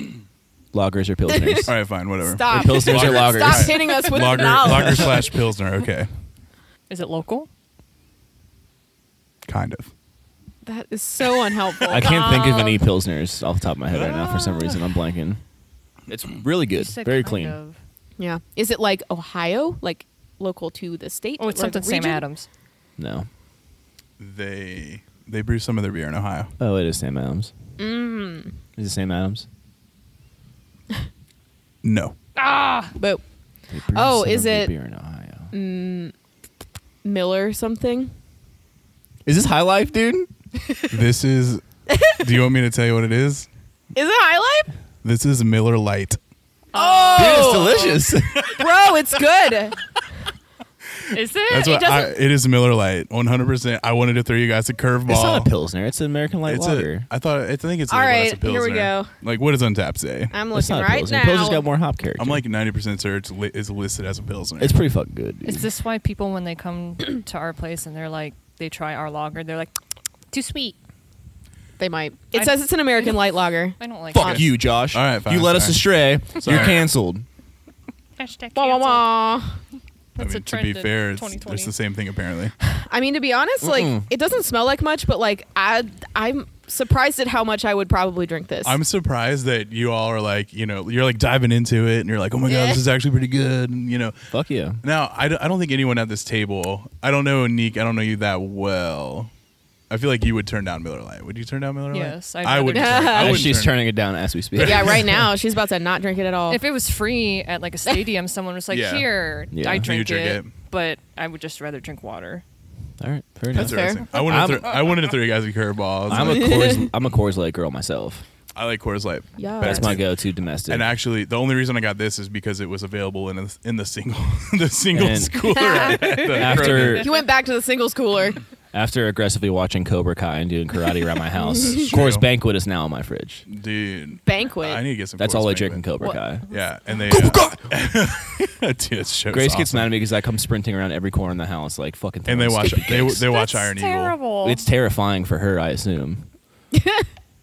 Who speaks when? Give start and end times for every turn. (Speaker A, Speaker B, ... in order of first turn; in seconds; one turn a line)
Speaker A: 0.7-1.8
Speaker B: 1.3-1.7
Speaker C: 1.7-6.1
Speaker B: 2.2-5.3
Speaker A: 2.5-3.9
Speaker A: 4.7-5.1
Speaker D: 6.9-7.5
Speaker C: 9.5-9.9
Speaker B: 10.6-12.5
Speaker A: 11.9-15.4
Speaker D: 11.9-12.9
Speaker C: 13.9-14.2
Speaker D: 14.3-14.7
Speaker A: 16.1-17.6
Speaker D: 16.7-17.8
Speaker B: 18.2-22.2
Speaker D: 21.4-22.5
Speaker A: 23.0-23.3
Speaker C: 24.2-26.5
Speaker A: 26.6-27.5
Speaker B: 27.8-28.6
Speaker A: 28.8-29.5
Speaker C: 31.8-32.2
Speaker D: 32.4-33.0
Speaker A: 33.7-35.5
Speaker B: 33.9-34.7
Speaker B: 35.5-36.1
Speaker B: 37.0-38.1
Speaker A: 39.2-40.3
Speaker C: 40.9-43.5
Speaker B: 41.9-42.2
Speaker B: 43.9-44.7
Speaker C: 45.0-46.2
Speaker D: 46.7-47.9
Speaker B: 46.7-49.8
Speaker A: 47.1-48.6
Speaker D: 51.1-51.9
Speaker C: 51.5-55.5
Speaker B: 51.6-52.1
Speaker A: 55.1-57.1
Speaker C: 56.5-60.4
Speaker B: 57.9-59.1
Speaker B: 60.3-61.7
Speaker A: 60.5-62.4
Speaker C: 62.2-64.8
Speaker A: 64.6-65.7
Speaker D: 65.5-69.7
Speaker D: 70.3-70.8
Speaker B: 71.8-74.5
Speaker D: 72.3-73.3
Speaker D: 73.8-74.4
Speaker A: 74.1-77.2
Speaker C: 74.2-76.9
Speaker D: 78.2-79.3
Speaker B: 78.6-79.6
Speaker D: 80.2-81.7
Speaker C: 80.2-82.5
Speaker B: 82.6-88.8
Speaker A: 83.6-84.1
Speaker C: 88.7-94.3
Speaker B: 92.5-92.8
Speaker A: 94.3-94.8
Speaker C: 94.8-99.3
Speaker C: 99.9-103.9
Speaker D: 101.9-103.2
Speaker B: 102.7-103.5
Speaker A: 103.1-105.1
Speaker C: 104.5-105.3
Speaker B: 104.6-106.6
Speaker D: 106.5-112.4
Speaker C: 108.7-109.1
Speaker A: 109.5-109.9
Speaker C: 109.7-110.5
Speaker A: 113.0-114.8
Speaker B: 113.5-114.1
Speaker C: 113.5-116.9
Speaker A: 116.1-118.2
Speaker B: 116.1-116.8
Speaker C: 118.5-120.1
Speaker B: 119.4-120.0
Speaker A: 119.6-120.9
Speaker C: 120.7-127.2
Speaker A: 124.9-127.1
Speaker B: 125.5-128.4
Speaker A: 128.7-133.4
Speaker B: 131.4-131.9
Speaker C: 131.6-132.3
Speaker C: 133.5-135.8
Speaker B: 134.3-134.8
Speaker A: 135.2-136.5
Speaker C: 136.5-139.9
Speaker A: 137.1-137.7
Speaker A: 139.3-143.3
Speaker C: 142.3-144.2
Speaker D: 143.3-144.6
Speaker A: 144.4-146.3
Speaker B: 146.8-147.1